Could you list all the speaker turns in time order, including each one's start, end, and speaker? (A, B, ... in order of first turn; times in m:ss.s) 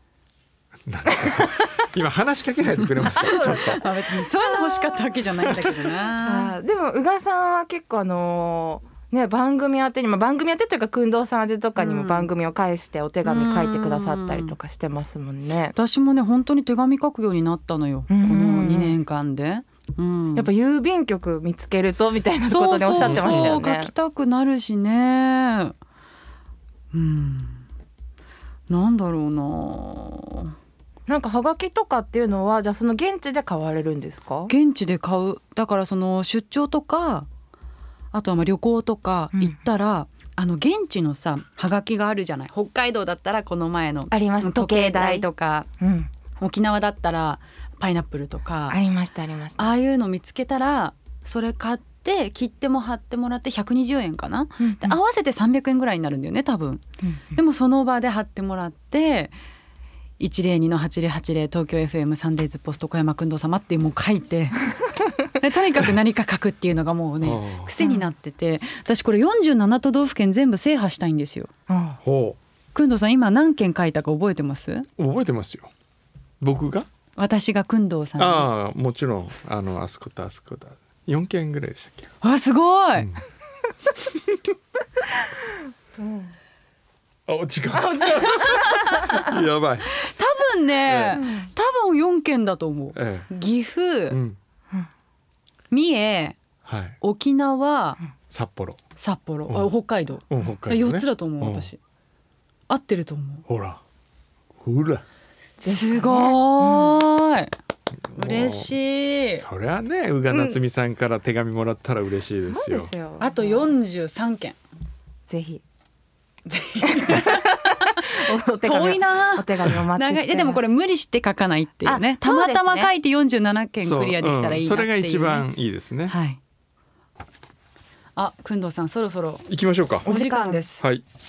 0:00.9-0:03.8 A
0:01.1-0:01.9 B
0:03.0-0:06.5 C
0:03.1-0:15.8 B
0:11.8-0:12.3 C
0:13.2-0:14.5 C
0:15.8-0:20.5 C
0:18.1-0:19.0 B
0:20.4-0:23.9 B
0:22.5-0:25.7 C
0:23.0-0:23.6 A
0:26.9-0:27.6 C
0:28.7-0:30.5 C
0:31.1-0:34.5 B
0:34.5-0:37.3 C
0:38.1-0:45.7 C
0:39.3-0:39.6 B
0:44.1-0:45.3 B
0:45.8-0:46.1 B
0:46.4-0:48.8 C
0:48.7-0:49.7 B
0:49.6-0:59.3 C
0:54.6-0:55.0 B
0:57.0-0:57.3 B
1:00.2-1:11.5 C
1:07.2-1:07.8 A
1:07.8-1:08.1 B
1:11.7-1:12.0 B
1:12.0-1:12.4 A
1:12.7-1:14.9 C
1:15.0-1:15.7 A
1:16.4-1:16.9 A
1:17.2-1:18.5 C
1:18.2-1:22.1 A
1:22.2-1:23.2 C
1:24.0-1:24.4 A
1:26.0-1:26.3 B
1:27.3-1:29.9 A
1:27.7-1:29.3 B
1:28.1-1:29.3 C
1:30.0-1:34.2 C
1:30.9-1:31.2 A
1:31.1-1:31.5 B
1:33.0-1:33.3 A
1:34.1-1:34.4 A
1:35.7-1:36.4 C
1:36.6-1:37.0 A
1:37.0-1:38.0 C
1:38.2-1:38.8 A
1:39.0-1:41.8 C
1:39.5-1:39.7 A
1:40.3-1:41.7 A
1:42.7-1:43.4 C
1:43.5-1:43.8 A
1:44.6-1:45.0 A
1:45.6-1:47.0 B
1:45.7-1:47.5 C
1:48.1-1:48.8 A
1:48.1-1:49.4 C
1:49.4-1:52.9 A
1:50.3-1:50.6 B
1:52.4-1:53.7 B
1:53.2-1:54.6 C
1:55.3-1:55.6 B
1:56.5-1:58.1 C
1:56.8-2:00.6 B
1:58.6-2:05.5 C
2:01.8-2:02.9 B
2:03.8-2:06.2 A
2:06.1-2:06.4 C
2:08.2-2:09.4 C
2:09.5-2:10.1 A
2:10.0-2:10.7 B
2:10.1-2:10.8 C
2:10.8-2:11.0 A